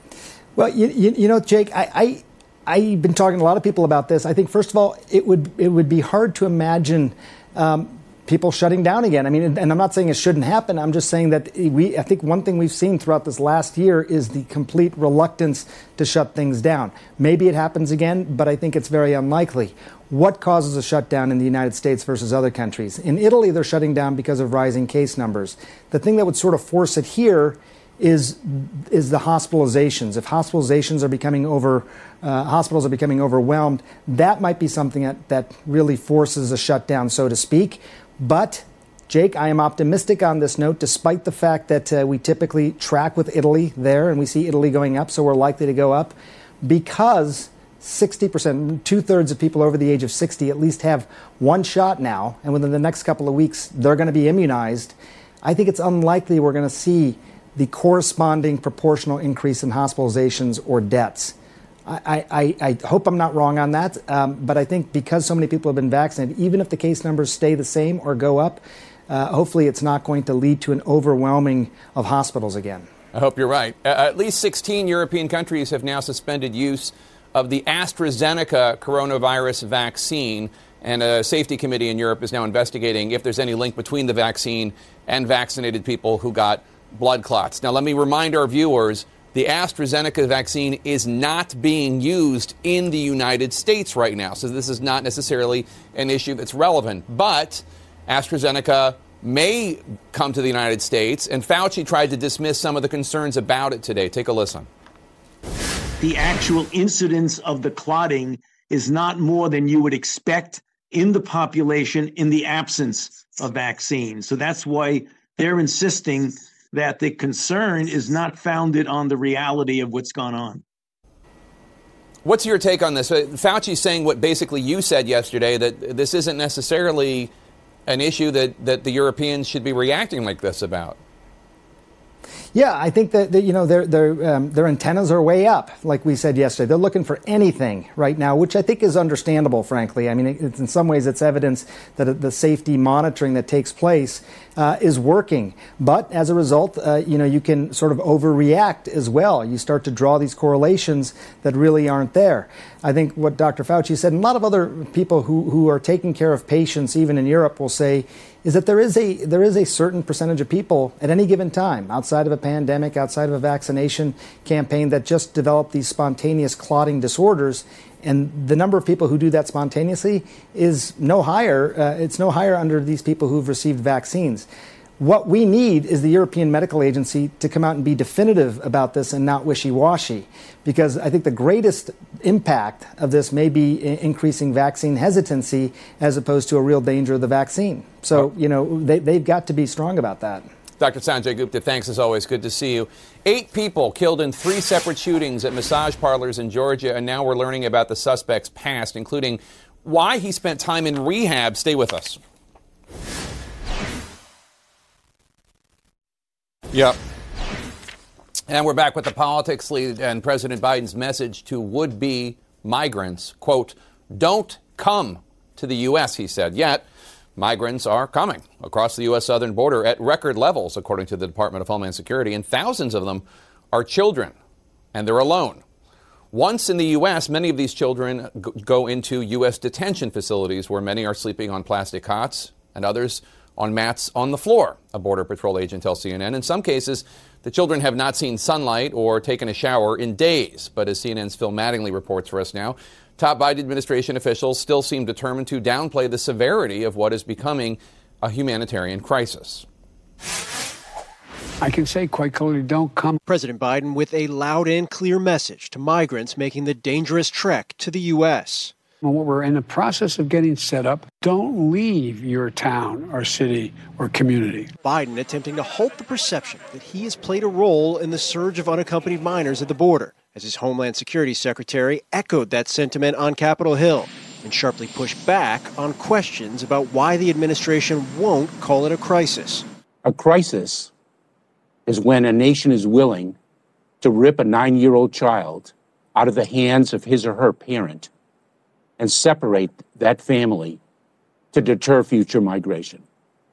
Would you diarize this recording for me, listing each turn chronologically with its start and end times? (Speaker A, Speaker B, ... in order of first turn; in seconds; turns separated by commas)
Speaker A: 0.6-61.4, Speaker A: 61.9-72.9, Speaker B: 73.1-104.7, Speaker C: 106.0-120.6, Speaker B: 122.2-127.3, Speaker B: 127.9-131.0, Speaker A: 132.5-174.5, Speaker A: 175.0-190.5, Speaker B: 190.8-202.2, Speaker B: 206.7-207.0, Speaker B: 208.5-216.8, Speaker B: 217.4-224.3, Speaker B: 224.9-225.6, Speaker B: 226.3-249.7, Speaker D: 251.6-253.2, Speaker E: 253.3-258.7, Speaker D: 259.0-264.7, Speaker E: 264.8-279.6, Speaker F: 280.1-280.9, Speaker F: 281.9-283.4, Speaker F: 284.0-288.1, Speaker F: 289.0-290.8, Speaker F: 291.5-293.0